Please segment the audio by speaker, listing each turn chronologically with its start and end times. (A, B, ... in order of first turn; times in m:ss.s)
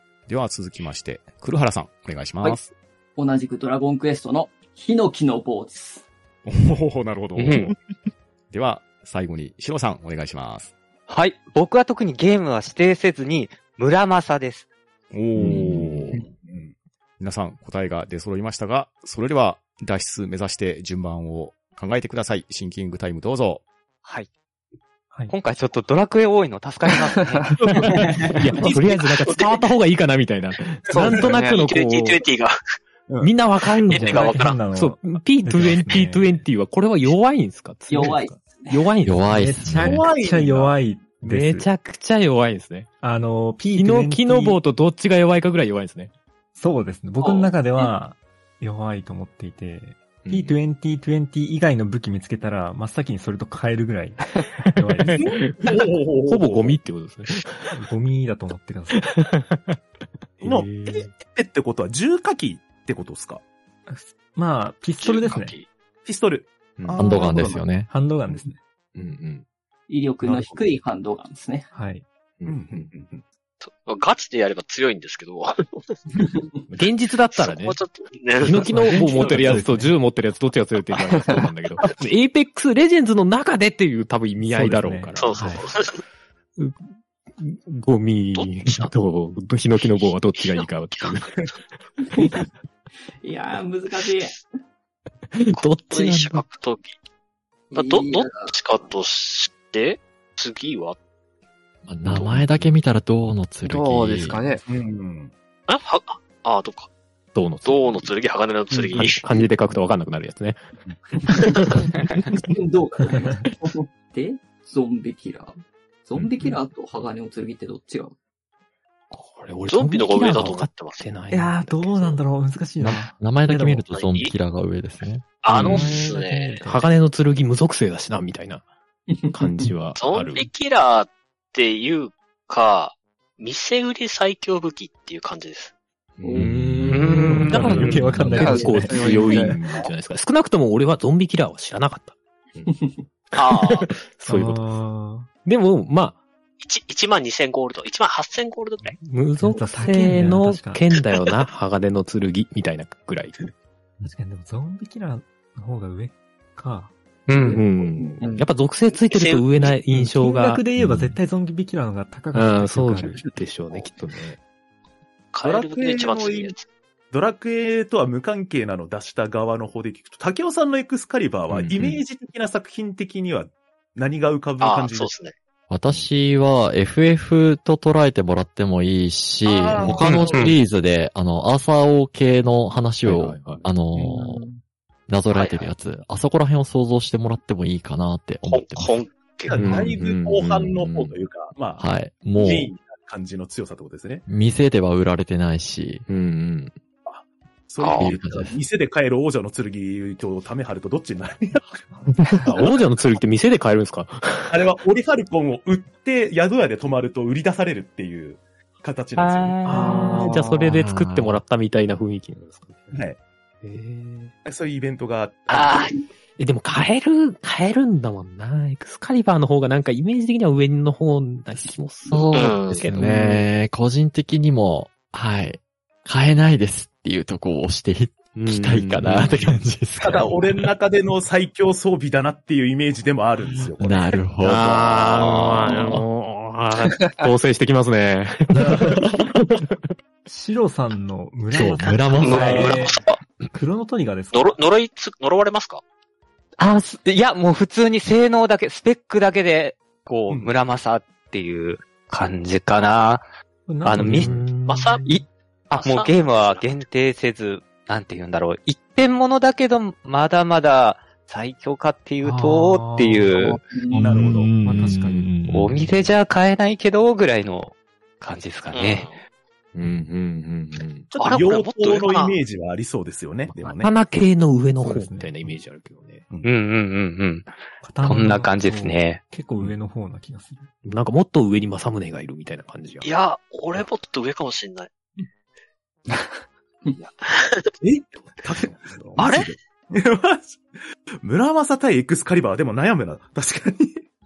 0:00.3-0:02.7 A
0:03.2-0:06.0 B
0:06.4-0:07.8 A
0:07.4-0:07.7 C
0:08.5-0:10.7 A
0:11.1-0:14.7 C
0:15.1-0:16.2 A
0:15.4-0:16.2 D
0:15.6-0:16.7 E
0:17.2-0:23.6 A
0:25.3-0:27.6 C
0:27.6-0:28.0 E
0:28.0-0:28.3 B
0:28.3-0:32.2 D
0:29.0-0:29.6 F
0:30.9-0:31.6 G
0:31.6-0:32.6 F
0:33.2-0:39.2 D
0:33.9-0:34.6 F
0:33.9-0:36.4 H
0:37.9-0:38.8 B
0:39.0-0:40.0 I
0:39.3-0:41.7 H
0:39.8-0:40.8 E
0:41.2-0:42.9 D
0:43.0-0:44.6 H
0:43.7-0:46.1 D
0:46.5-0:55.4 H
0:47.2-0:47.9 F
0:50.2-0:50.6 D
0:55.0-0:57.7 D
0:55.1-0:56.8 E
0:57.7-0:59.1 H
0:58.9-0:59.8 D
1:00.4-1:01.0 D
1:00.4-1:03.4 E
1:03.9-1:05.6 H
1:05.0-1:05.7 F
1:06.0-1:07.8 E
1:06.8-1:07.1 D
1:07.0-1:07.9 I
1:07.2-1:08.6 H
1:08.9-1:09.4 D
1:09.9-1:11.7 B
1:10.2-1:10.7 H
1:11.7-1:12.0 H
1:12.4-1:12.9 D
1:12.4-1:13.2 E
1:13.6-1:15.7 F
1:16.7-1:17.8 D
1:17.3-1:19.6 F
1:18.4-1:25.6 D
1:18.5-1:20.0 H
1:24.4-1:25.7 H
1:25.2-1:26.0 F
1:26.6-1:26.8 D
1:27.4-1:31.3 D
1:28.3-1:28.8 F
1:30.0-1:31.2 F
1:32.1-1:32.4 B
1:33.2-1:34.4 B
1:35.3-1:36.4 D
1:35.6-1:37.0 F
1:37.7-1:38.5 B
1:37.7-1:41.0 F
1:41.8-1:44.4 I
1:42.1-1:42.7 D
1:43.6-1:44.6 G
1:44.6-1:45.3 E
1:45.7-1:46.9 F
1:47.3-1:48.1 D
1:47.6-1:49.2 F
1:48.9-1:50.6 D
1:51.3-1:51.8 D
1:52.4-1:58.1 B
1:59.1-2:02.2 D
1:59.7-2:01.0 F
2:01.3-2:03.9 H
2:02.8-2:05.2 I
2:03.9-2:04.3 F
2:05.4-2:06.7 F
2:05.5-2:08.6 D
2:05.7-2:06.2 H
2:09.3-2:10.5 D
2:10.0-2:15.7 F
2:16.2-2:22.7 D
2:16.2-2:16.5 B
2:16.9-2:17.7 C
2:17.0-2:19.4 H
2:17.7-2:19.7 G
2:23.3-2:24.6 D
2:23.4-2:23.9 F
2:24.3-2:25.3 H
2:25.4-2:26.2 D
2:26.6-2:29.0 F
2:29.0-2:33.4 D
2:29.4-2:30.8 H
2:34.0-2:36.9 H
2:37.3-2:37.6 C
2:37.3-2:40.6 D
2:39.1-2:39.8 F
2:39.9-2:43.3 H
2:40.8-2:41.2 I
2:42.3-2:44.4 D
2:45.3-2:46.6 F
2:45.4-2:46.5 E
2:47.1-2:55.1 E
2:51.5-2:52.0 D
2:54.6-2:55.3 F
2:55.7-3:04.4 I
2:59.4-3:00.5 E
3:00.0-3:00.5 F
3:03.0-3:03.6 D
3:03.9-3:04.2 E
3:04.2-3:04.4 G
3:05.1-3:09.0 I
3:05.3-3:05.7 F
3:08.4-3:09.9 F
3:09.5-3:14.2 E
3:09.5-3:11.2 D
3:11.8-3:12.7 I
3:14.3-3:16.0 I
3:16.1-3:16.7 D
3:17.0-3:21.8 E
3:17.8-3:18.1 F
3:18.0-3:18.5 I
3:22.4-3:24.6 D
3:24.5-3:29.6 E
3:29.2-3:30.2 C
3:29.6-3:33.0 D
3:29.8-3:30.2 H
3:30.0-3:30.5 G
3:30.6-3:31.4 I
3:32.9-3:33.2 E
3:33.6-3:34.3 D
3:34.4-3:35.9 E
3:36.4-3:43.5 D
3:42.1-3:50.5 I
3:42.3-3:42.8 F
3:48.3-3:49.6 D
3:50.0-3:54.2 E
3:53.8-3:55.9 I
3:54.4-3:59.8 D
3:58.6-3:59.1 H
4:00.2-4:04.6 H
4:01.5-4:02.9 I
4:02.2-4:03.1 F
4:04.3-4:05.8 F
4:06.6-4:13.2 C
4:13.7-4:14.4 H
4:13.8-4:14.3 C
4:14.0-4:15.1 D
4:14.7-4:15.0 F
4:15.0-4:23.6 C
4:15.7-4:16.8 F
4:22.3-4:23.4 H
4:23.7-4:24.0 B
4:23.9-4:24.5 E
4:23.9-4:25.9 I
4:24.6-4:25.4 H
4:25.5-4:29.1 C
4:28.7-4:29.2 F
4:29.7-4:31.1 D
4:31.1-4:33.9 E
4:31.2-4:32.4 F
4:33.5-4:36.2 D
4:34.8-4:35.3 H
4:36.4-4:37.5 C
4:37.8-4:40.7 H
4:38.0-4:39.2 C
4:40.8-4:43.1 D
4:43.0-4:44.9 F
4:47.2-4:47.7 F
4:47.8-4:50.6 E
4:49.2-4:49.4 C
4:51.2-4:54.0 E